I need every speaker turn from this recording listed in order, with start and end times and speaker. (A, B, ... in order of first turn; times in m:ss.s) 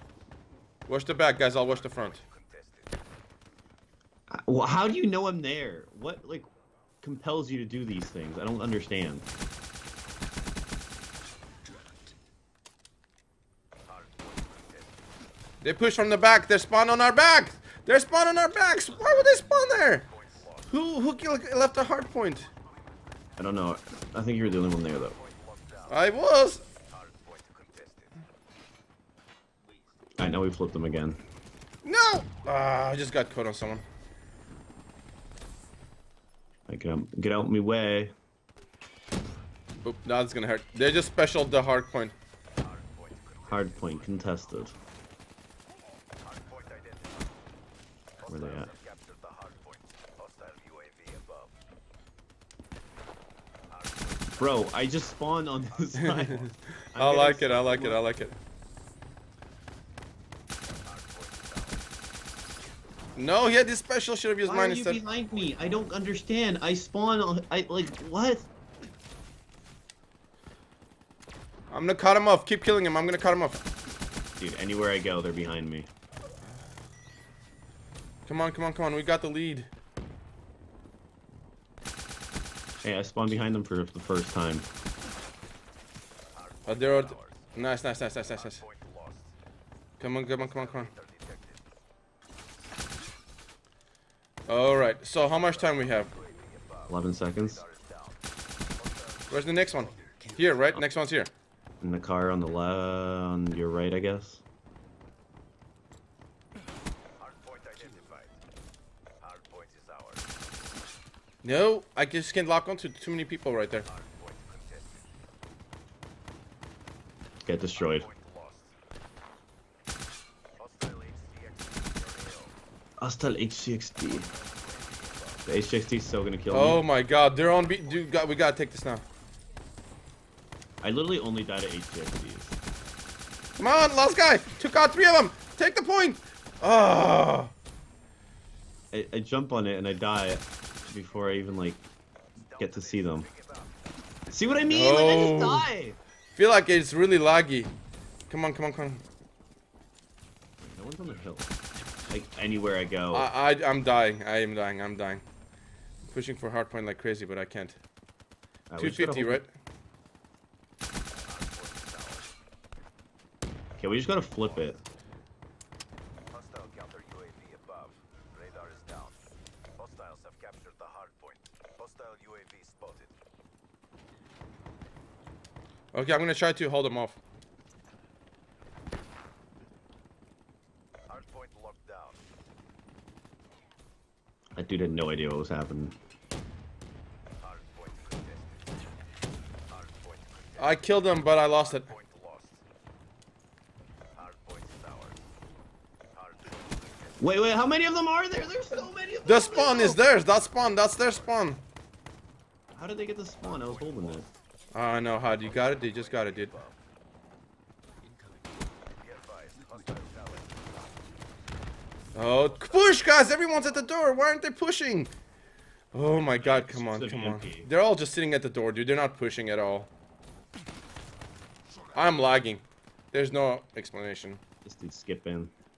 0:00.9-0:02.2 A
0:01.4-0:02.9 B
0:04.3-0:06.5 C
0:07.0-0:09.2 C
0:11.6-0:12.1 D
0:13.8-0:15.0 B
0:15.6-0:20.0 A
0:18.9-0:20.4 D
0:19.0-0:20.8 B
0:20.7-0:22.5 A
0:23.4-0:25.2 C
0:24.9-0:28.2 B
0:25.9-0:26.6 A
0:29.6-0:30.1 D
0:30.2-0:31.2 C
0:31.8-0:33.8 A
0:36.7-0:38.1 C
0:39.8-0:42.1 A
0:42.6-0:44.7 B
0:43.5-0:44.7 C
0:46.2-0:47.4 B
0:48.2-0:51.5 B
0:48.3-0:48.7 C
0:53.7-0:54.8 B
0:54.4-0:58.0 C
0:55.7-0:56.5 B
0:56.0-0:58.4 A
1:00.8-1:01.9 B
1:03.2-1:05.0 A
1:04.4-1:08.5 C
1:05.0-1:05.7 B
1:11.7-1:13.6 A
1:14.4-1:15.9 C
1:18.2-1:19.7 A
1:22.8-1:24.6 C
1:26.3-1:27.6 B
1:26.6-1:28.6 A
1:28.3-1:29.3 B
1:30.0-1:30.9 A
1:30.2-1:31.6 B
1:34.5-1:36.1 A
1:35.2-1:39.6 B
1:36.9-1:37.6 C
1:39.3-1:41.3 A
1:39.8-1:40.7 D
1:41.8-1:44.4 C
1:47.2-1:48.4 B
1:49.2-1:50.3 B
1:51.4-1:53.9 A
1:53.8-1:55.0 B
1:57.4-1:58.1 C
1:57.7-1:58.7 B
2:00.6-2:02.6 B
2:03.0-2:04.3 C
2:04.1-2:05.5 B
2:05.4-2:06.8 C
2:06.5-2:09.0 A
2:07.3-2:08.5 B
2:10.8-2:12.6 C
2:13.6-2:17.5 A
2:18.9-2:21.8 C
2:22.4-2:23.8 B
2:22.6-2:23.3 C
2:24.3-2:26.0 C
2:24.7-2:25.7 A
2:26.4-2:27.7 A
2:28.3-2:29.0 A
2:30.6-2:31.5 C
2:32.1-2:33.3 C
2:33.1-2:35.2 A
2:36.1-2:37.8 A
2:38.7-2:39.4 C
2:38.8-2:39.5 A
2:41.2-2:42.3 B
2:43.8-2:44.8 C
2:46.3-2:49.2 B
2:49.8-2:53.1 B
2:55.9-2:57.2 A
3:01.1-3:02.2 B
3:04.6-3:06.0 C
3:07.4-3:08.7 B
3:09.7-3:12.6 B
3:10.6-3:11.9 A
3:14.1-3:15.2 B
3:16.1-3:17.5 B
3:17.2-3:20.0 C
3:19.2-3:21.6 A
3:20.0-3:21.3 B
3:22.7-3:24.3 C
3:23.4-3:24.3 B
3:24.7-3:26.6 A
3:25.0-3:26.8 B
3:28.0-3:28.8 D
3:29.0-3:30.9 B
3:29.5-3:30.1 D
3:32.1-3:35.1 A
3:32.4-3:33.9 B
3:35.9-3:39.9 A
3:36.4-3:37.7 C
3:41.9-3:44.4 A
3:44.6-3:45.5 C